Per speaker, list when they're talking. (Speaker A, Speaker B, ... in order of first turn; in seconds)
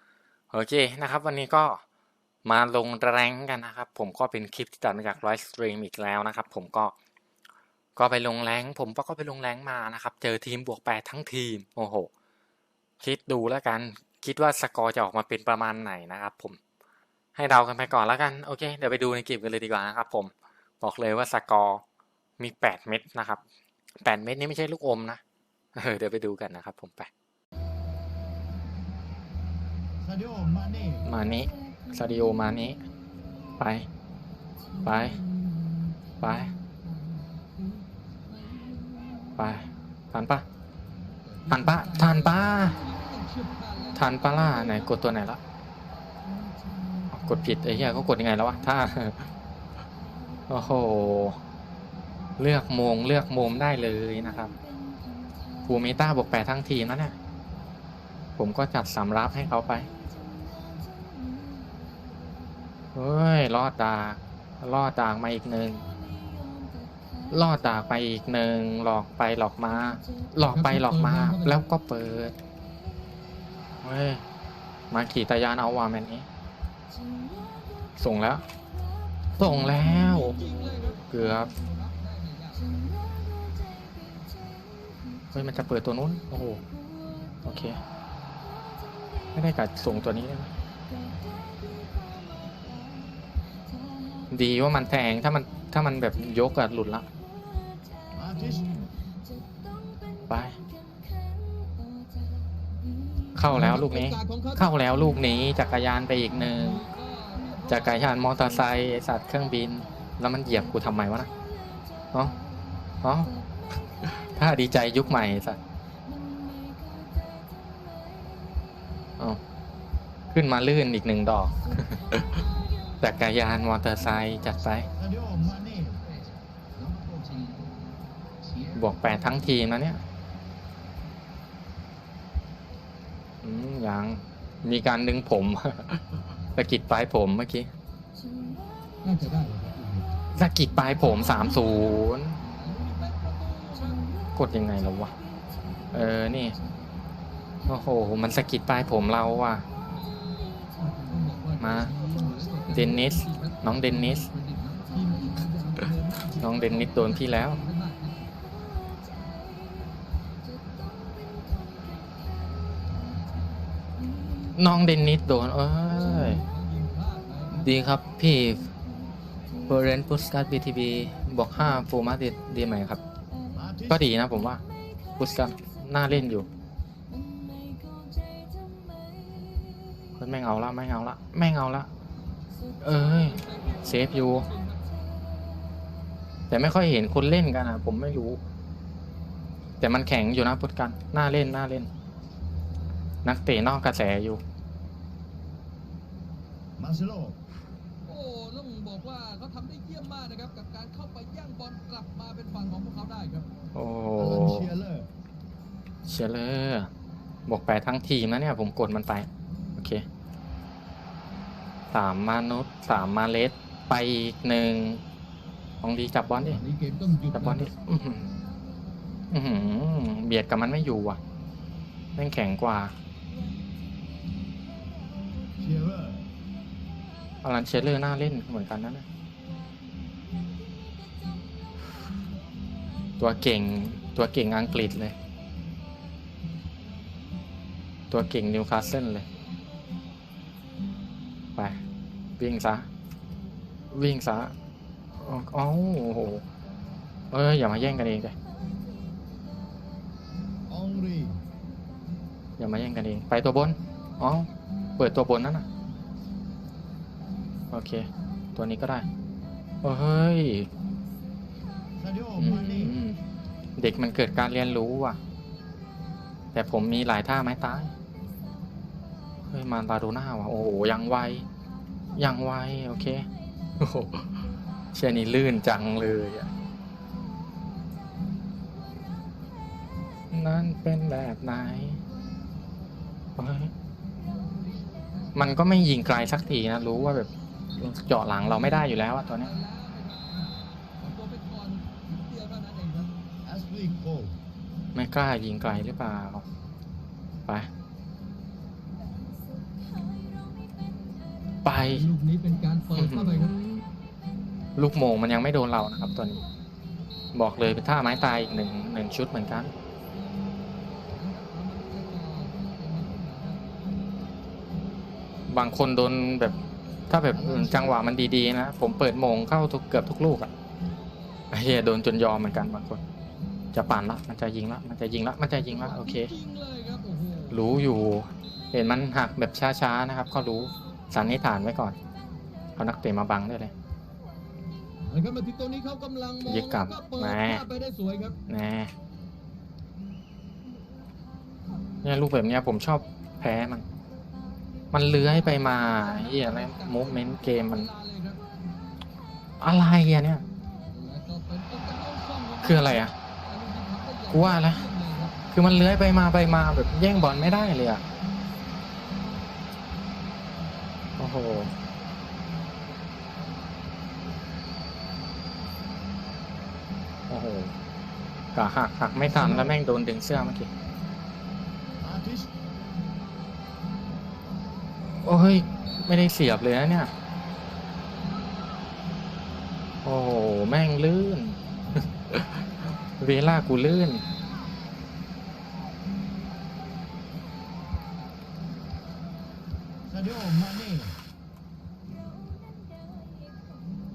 Speaker A: 0.5-1.8, 2.4-6.9, 8.0-12.1, 13.0-16.6, 17.3-21.8, 22.4-23.4, 24.0-25.2, 25.7-27.1, 31.0-32.8, 33.6-33.9, 34.8-35.2, 36.2-36.5, 39.4-40.4, 41.5-42.8, 43.9-45.4, 47.1-49.3, 50.5-51.4, 52.4-54.5, 55.7-57.1, 58.4-59.9, 62.9-65.8, 67.3-72.3, 73.8-74.2, 74.9-76.3, 78.0-78.4, 79.4-80.4, 81.1-81.5, 85.3-86.6, 87.4-87.8, 89.3-90.5, 94.3-97.0, 100.3-100.6, 103.3-106.9, 107.7-111.3, 113.0-113.3, 114.0-115.6, 120.3-122.2, 123.0-124.9, 128.7-130.0, 133.4-137.7, 140.3-142.4, 144.3-145.1, 145.9-146.6, 147.7-149.6, 151.6-151.9, 152.7-154.3, 156.3-157.6, 164.5-166.4, 167.5-168.7, 169.7-173.0, 173.9-174.6, 175.2-176.5, 180.2-181.9, 182.8-184.5, 186.5-188.4, 189.8-191.9, 193.2-194.4, 203.7-204.7, 206.1-206.9, 207.5-210.0, 211.9-215.0, 215.8-216.6, 217.3-218.3, 219.3-221.2, 222.2-222.9, 227.4-229.0, 233.2-235.1, 238.1-239.2, 242.4-242.9, 243.9-244.5, 245.2-246.4, 247.3-248.3, 252.6-255.7, 257.7-259.1, 259.8-260.7, 262.4-263.2, 263.8-265.2, 266.5-267.9, 269.5-271.4, 272.1-273.3, 273.8-274.3, 274.9-276.5, 280.3-282.0, 283.4-283.7, 285.3-289.5, 294.9-296.4, 301.6-302.1, 303.0-303.7, 304.8-306.4, 307.3-309.7, 315.5-316.5, 317.1-320.5, 321.5-323.0, 323.7-326.3, 327.5-331.9, 332.8-333.7, 336.4-337.6, 338.5-338.9, 342.0-343.8, 344.9-347.9, 349.6-350.4, 352.6-353.1, 354.3-354.9, 355.5-358.0, 361.2-361.7, 367.3-367.7, 368.5-370.7, 375.2-377.1, 380.0-381.6, 382.3-382.7, 383.2-384.2
Speaker B: 30.1-31.0, 98.1-98.9, 125.1-126.0, 173.5-173.9, 196.8-197.4, 204.2-205.1, 225.6-226.2, 250.7-251.4, 262.0-262.9, 293.4-294.3, 317.5-317.9, 372.0-372.5, 390.1-391.1
Speaker C: 41.4-44.3, 70.5-71.5, 79.9-82.8, 103.5-104.7, 106.8-107.8, 139.0-140.1, 141.0-144.1, 150.7-158.3, 166.3-167.6, 183.0-184.8, 198.1-203.5, 216.6-217.7, 289.4-293.1, 301.9-303.5, 311.1-313.7, 325.7-327.6, 335.1-338.4, 345.8-348.4, 350.9-355.4